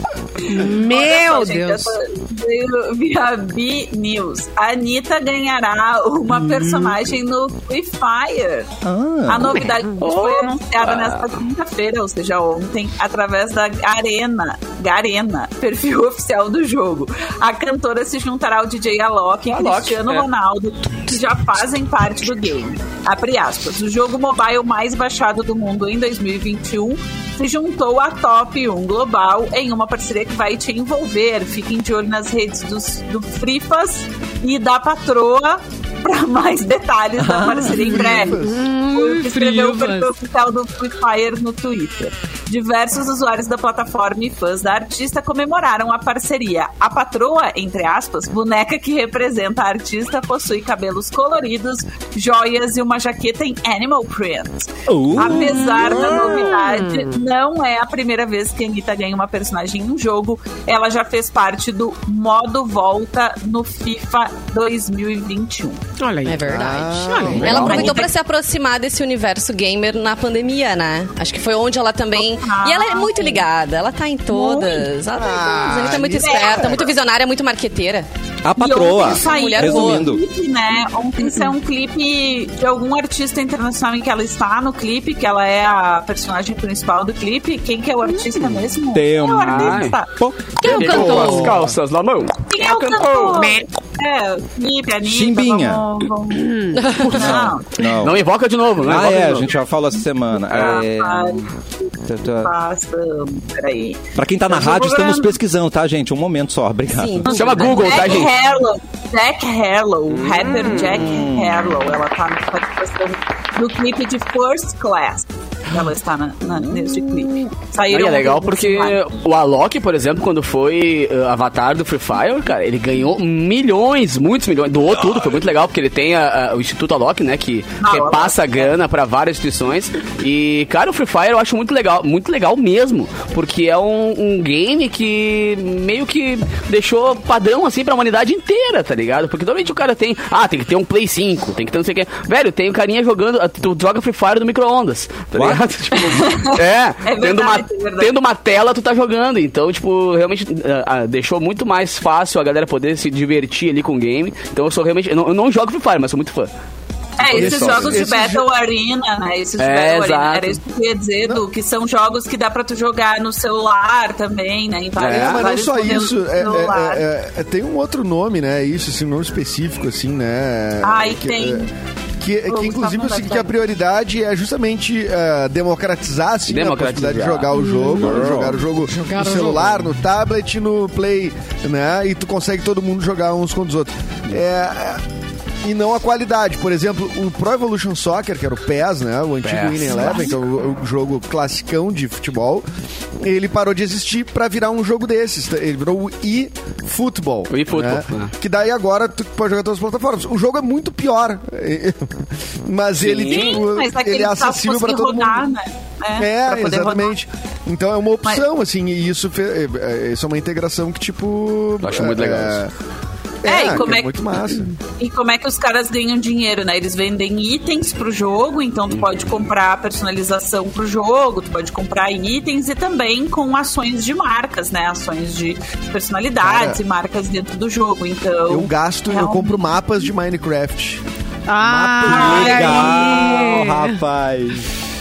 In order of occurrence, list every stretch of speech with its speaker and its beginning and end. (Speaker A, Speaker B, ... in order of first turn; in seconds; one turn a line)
Speaker A: 0.5-1.9
Speaker B: 0.5-8.7
Speaker C: 8.8-9.7
Speaker B: 9.3-65.8
Speaker D: 10.0-11.3
Speaker D: 19.5-20.3
Speaker C: 37.2-37.9
Speaker E: 37.9-38.7
Speaker A: 38.2-40.1
Speaker C: 54.9-56.4
Speaker A: 56.0-57.1
Speaker A: 66.0-67.5
Speaker F: 66.2-78.1
Speaker E: 66.5-68.0
Speaker C: 67.4-68.0
Speaker B: 67.5-68.2
Speaker B: 72.1-73.5
Speaker B: 74.4-74.7
Speaker E: 75.1-76.9
Speaker B: 76.2-76.8
Speaker C: 78.4-80.2
Speaker B: 78.6-90.1
Speaker F: 79.1-80.1
Speaker C: 88.9-91.6
Speaker D: 89.4-90.0
Speaker A: 90.6-91.6
Speaker D: 90.6-93.4
Speaker E: 90.8-91.7
Speaker B: 92.5-97.8
Speaker A: 93.3-93.7
Speaker C: 95.0-95.9
Speaker A: 96.4-97.0
Speaker F: 96.8-97.1
Speaker C: 97.1-98.2
Speaker D: 97.8-99.5
Speaker C: 98.8-101.5
Speaker B: 100.5-101.5
Speaker D: 100.5-100.8
Speaker C: 102.1-102.5
Speaker B: 102.3-105.4
Speaker C: 104.2-107.7
Speaker F: 106.9-107.9
Speaker B: 107.3-119.0
Speaker D: 107.3-108.3
Speaker D: 110.1-111.0
Speaker C: 110.5-112.0
Speaker D: 116.7-117.4
Speaker D: 117.9-156.5
Speaker B: 127.8-128.7
Speaker C: 145.3-145.6
Speaker B: 146.1-148.1
Speaker B: 157.2-167.1
Speaker E: 157.3-158.4
Speaker D: 157.3-157.9
Speaker D: 159.6-160.6
Speaker D: 165.0-165.5
Speaker E: 165.0-171.7
Speaker B: 170.8-171.7
Speaker E: 172.2-185.0
Speaker B: 172.5-173.6
Speaker D: 176.5-177.5
Speaker A: 177.5-178.3
Speaker C: 178.0-178.6
Speaker A: 178.8-179.8
Speaker E: 185.6-192.7
Speaker D: 189.4-190.3
Speaker A: 189.9-190.3
Speaker E: 193.2-205.5
Speaker D: 197.5-198.3
Speaker D: 203.0-203.7
Speaker B: 203.1-207.2
Speaker E: 206.2-212.7
Speaker D: 211.8-212.6
Speaker E: 213.4-214.7
Speaker B: 213.5-214.2
Speaker B: 215.0-229.8
Speaker E: 226.4-226.8
Speaker E: 228.5-231.0
Speaker A: 231.5-234.0
Speaker E: 231.6-233.0
Speaker C: 232.0-234.7
Speaker B: 232.1-233.0